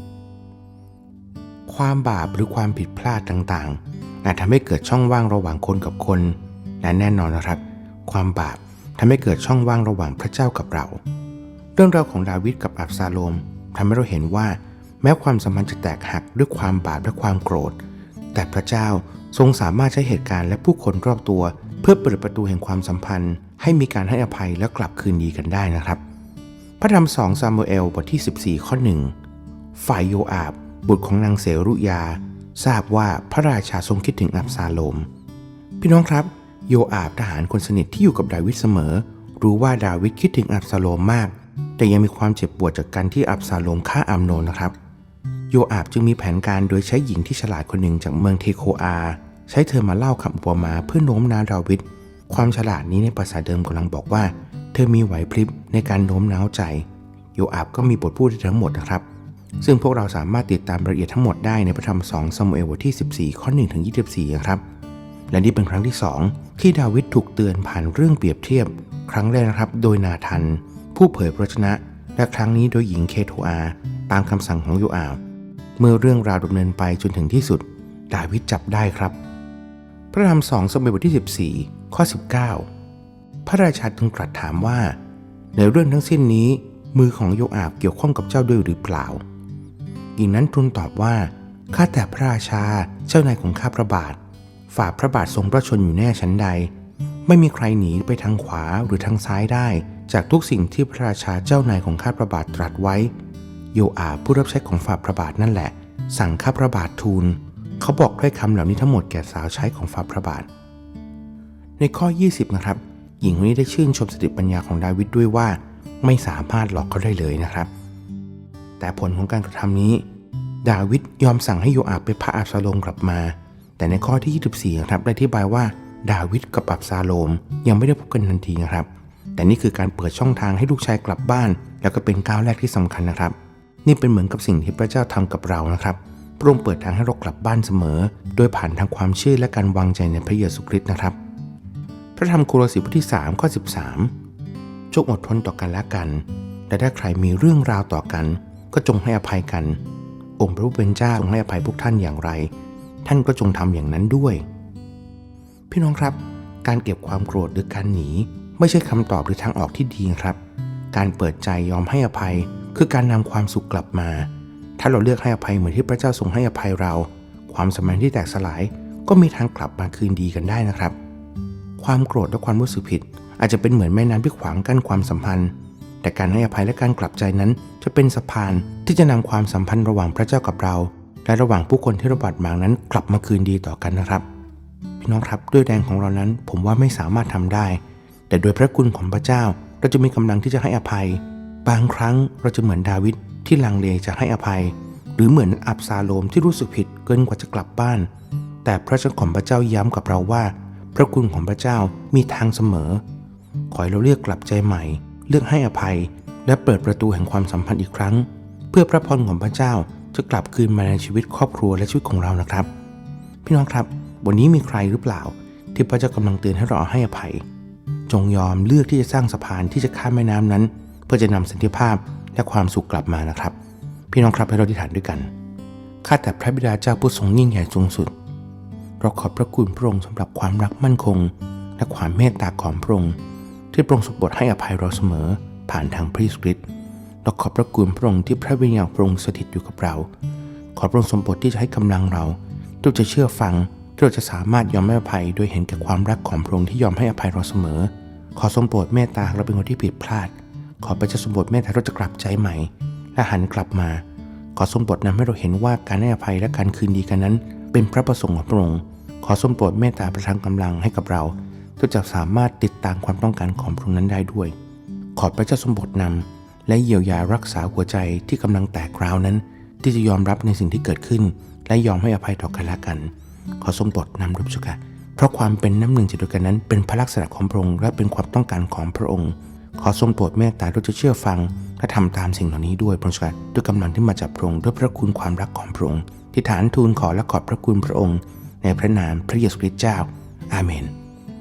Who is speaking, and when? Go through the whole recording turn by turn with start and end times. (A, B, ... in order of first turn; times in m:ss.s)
0:01.7-0:11.0 A
0:11.8-0:17.8 A
0:18.3-0:26.0 A
0:26.8-0:29.1 A
0:29.8-0:35.1 A
0:35.8-0:44.8 A
0:45.5-0:59.0 A
0:59.6-1:04.6 A
1:05.3-1:15.2 A
1:15.8-1:19.2 A
1:20.1-1:22.7 A
1:23.4-1:25.0 A
1:25.6-1:29.2 A
1:30.2-1:34.2 A
1:34.7-1:36.7 A
1:37.3-1:43.1 A
1:43.7-1:50.5 A
1:51.8-1:57.7 A
1:58.8-2:00.0 A
2:00.6-2:21.2 A
2:22.2-2:24.1 A
2:24.9-2:29.8 A
2:30.4-2:32.5 A
2:33.0-2:34.4 A
2:35.7-2:40.4 A
2:40.9-2:51.0 A
2:51.8-3:04.2 A
3:05.0-3:18.1 A
3:18.6-3:23.0 A
3:23.7-3:32.7 A
3:33.4-3:37.4 A
3:38.1-3:43.6 A
3:44.1-3:45.3 A
3:46.0-3:48.1 A
3:49.0-3:53.2 A
3:53.7-3:56.6 A
3:57.2-4:00.1 A
4:00.8-4:14.0 A
4:14.6-4:24.5 A
4:25.2-4:50.9 A